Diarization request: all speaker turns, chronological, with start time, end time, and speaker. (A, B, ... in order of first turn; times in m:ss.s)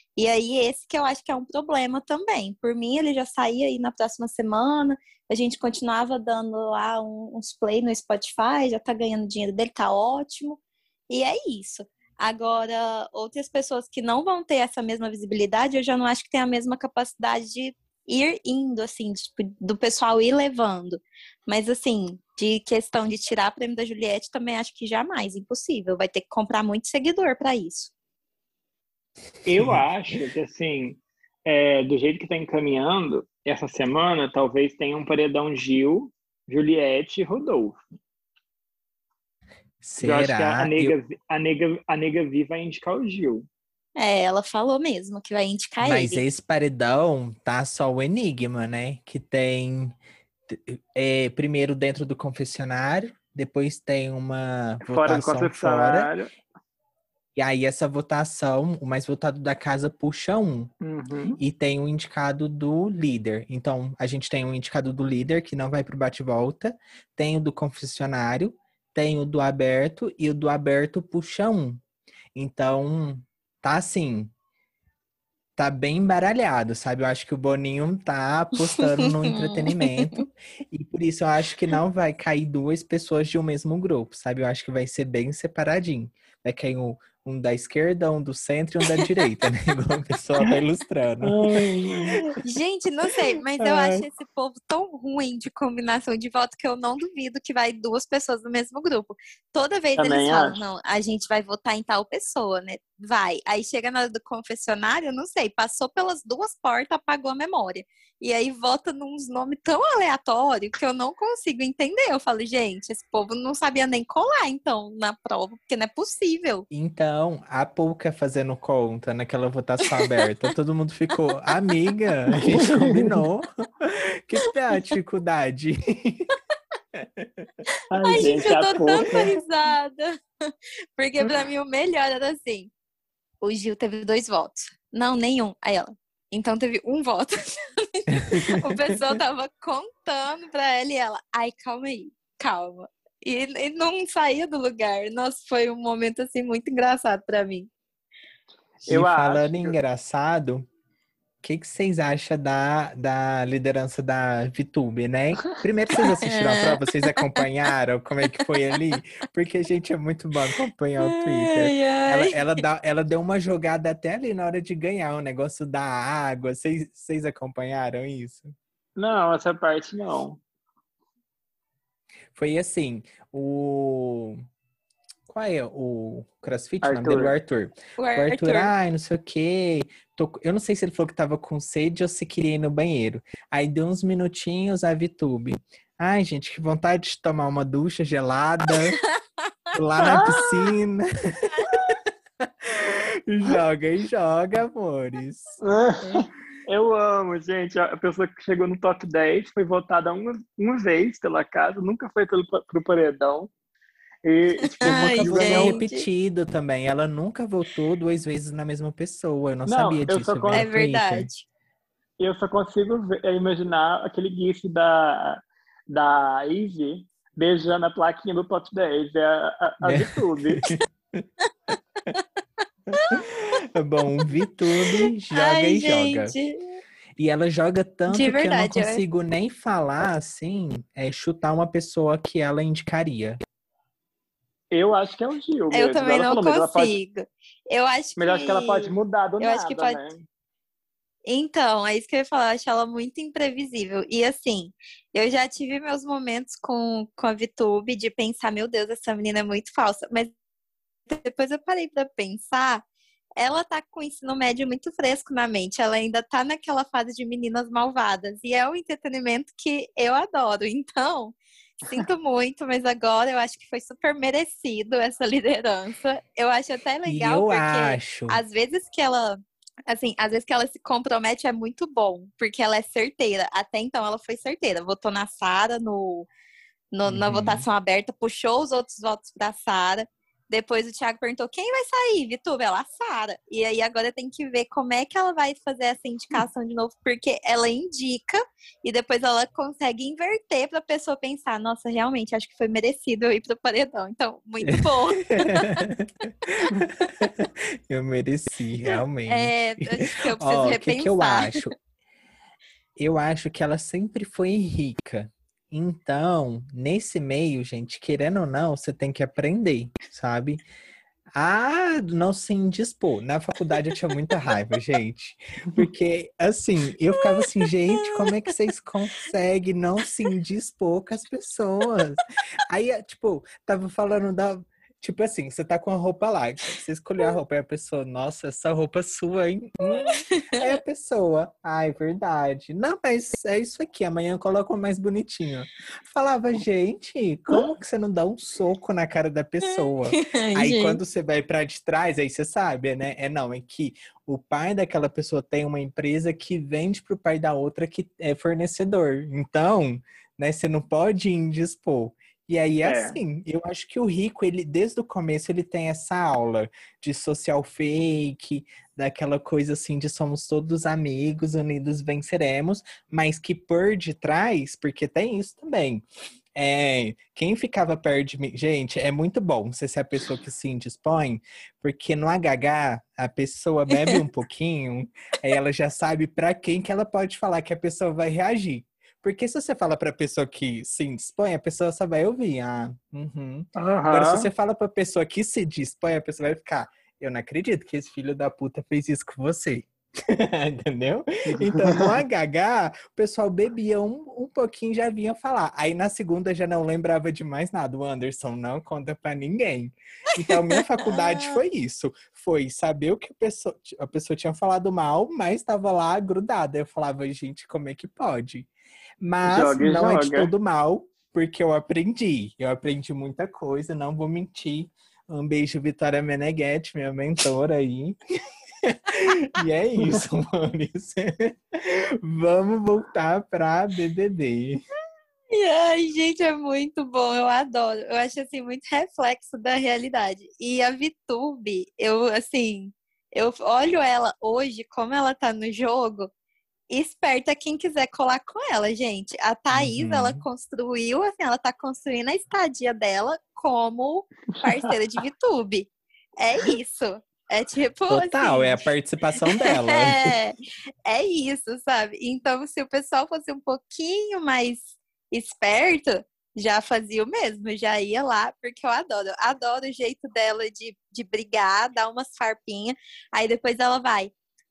0:00.2-0:27.9 A
0:29.4-0:37.8 B
0:29.6-0:29.8 C
0:39.8-0:40.9 C
0:40.0-0:43.4 B
0:44.0-0:46.2 A
0:45.8-0:50.0 C
0:50.5-0:56.1 C
0:54.8-0:56.3 B
0:57.4-1:00.7 C
1:00.8-1:01.4 B
1:01.4-1:11.8 C
1:12.3-1:14.3 C
1:15.6-1:32.2 C
1:18.8-1:20.2 A
1:31.2-1:32.2 B
1:32.4-1:56.6 A
1:33.6-1:34.1 C
1:40.0-1:40.6 B
1:56.7-2:06.3 C
2:02.5-2:03.2 B
2:06.9-2:07.5 C
2:07.9-2:09.2 B
2:08.0-2:12.7 A
2:13.4-2:27.7 A
2:18.1-2:19.0 C
2:28.8-2:29.8 B
2:28.9-2:30.7 C
2:31.4-2:48.5 C
2:36.0-2:37.2 A
2:41.0-2:42.6 A
2:49.0-2:50.4 B
2:52.4-2:54.4 C
2:55.3-3:09.0 C
2:56.8-2:57.4 B
2:58.0-2:58.7 A
3:09.7-3:15.6 C
3:10.0-3:10.5 B
3:15.6-3:23.5 B
3:24.2-3:25.8 B
3:24.8-3:26.0 A
3:24.8-3:31.3 C
3:29.6-3:30.7 B
3:30.5-3:31.5 A
3:32.2-3:40.6 B
3:39.8-3:41.2 C
3:42.9-3:46.4 C
3:43.0-3:43.3 A
3:44.8-3:46.6 A
3:47.2-3:53.4 C
3:48.1-3:49.0 A
3:54.7-3:56.9 B
3:55.7-4:00.1 A
3:58.2-4:00.2 B
4:01.3-4:10.3 A
4:11.1-4:12.8 A
4:13.4-4:36.3 A
4:27.0-4:28.4 C
4:36.9-4:55.8 A
4:37.1-4:37.6 C
4:55.3-5:01.7 C
4:59.3-5:01.6 A
5:03.0-5:10.6 C
5:11.4-6:06.0 C
5:17.3-5:18.3 A
5:30.0-5:30.8 A
5:40.1-5:41.0 A
5:52.8-5:53.2 B
6:06.5-6:48.7 C
6:23.8-6:24.5 B
6:31.6-6:32.1 B
6:41.0-6:41.6 A
6:49.2-6:58.2 C
6:49.4-6:50.5 B
6:58.8-7:04.8 C
7:05.5-7:16.3 A
7:16.9-7:28.9 A
7:19.7-7:20.4 C
7:28.1-7:30.4 C
7:29.5-7:44.3 A